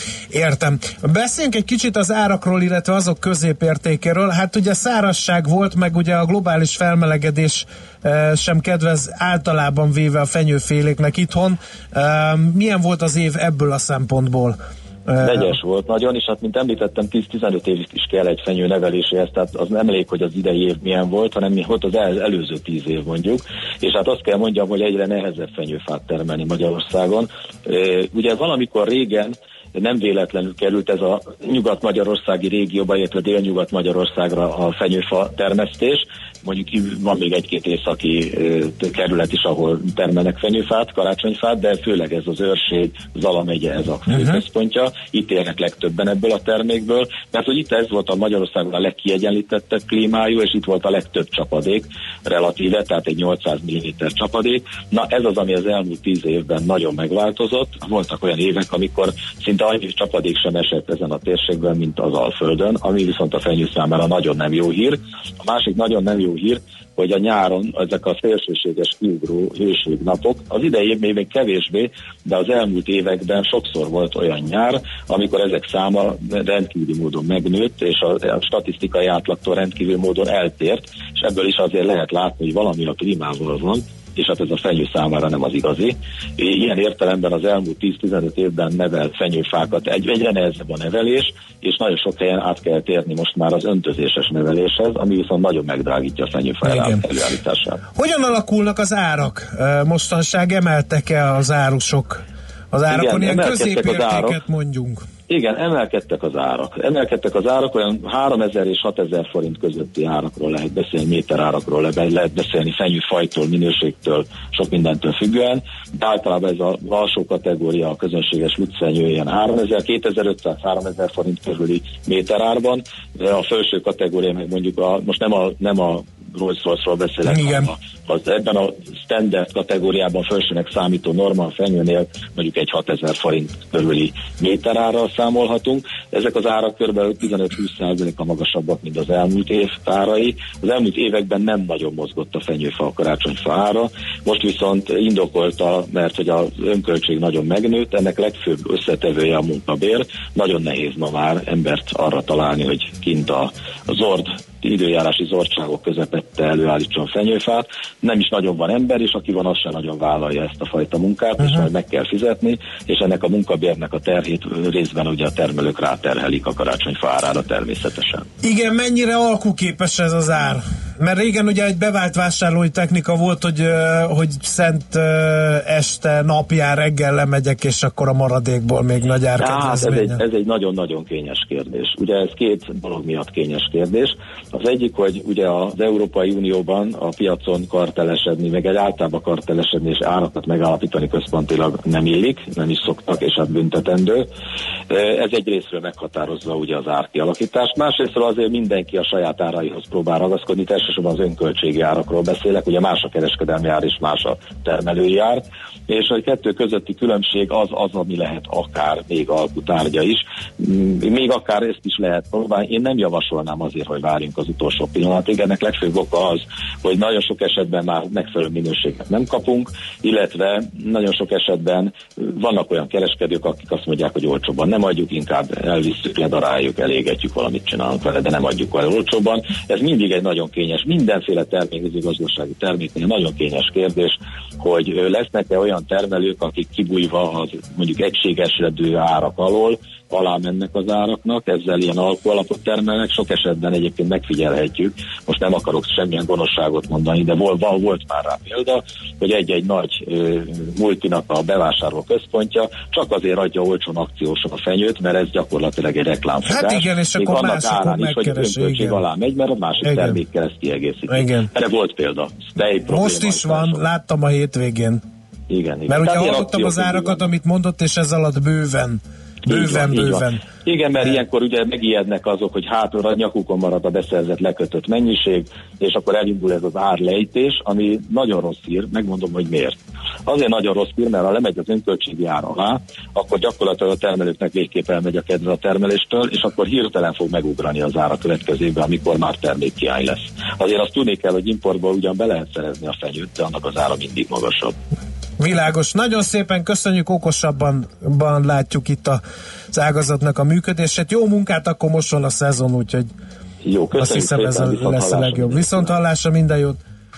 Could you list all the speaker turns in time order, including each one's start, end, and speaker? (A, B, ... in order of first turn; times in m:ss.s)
0:00.3-0:15.6 A
0:15.2-1:37.8 B
0:44.1-0:44.4 A
1:36.6-1:37.0 A
1:38.0-1:45.1 A
1:42.9-1:44.4 B
1:45.3-2:48.3 B
2:07.2-2:07.7 A
2:48.4-3:00.2 A
2:59.4-3:14.3 B
3:14.9-4:23.8 B
4:16.4-4:19.0 A
4:19.8-4:20.2 A
4:21.1-4:21.5 A
4:22.8-4:25.0 A
4:25.5-4:27.3 B
4:25.9-4:30.4 A
4:29.5-4:54.8 B
4:55.4-5:03.1 A
5:03.6-5:06.0 B
5:04.0-5:06.8 A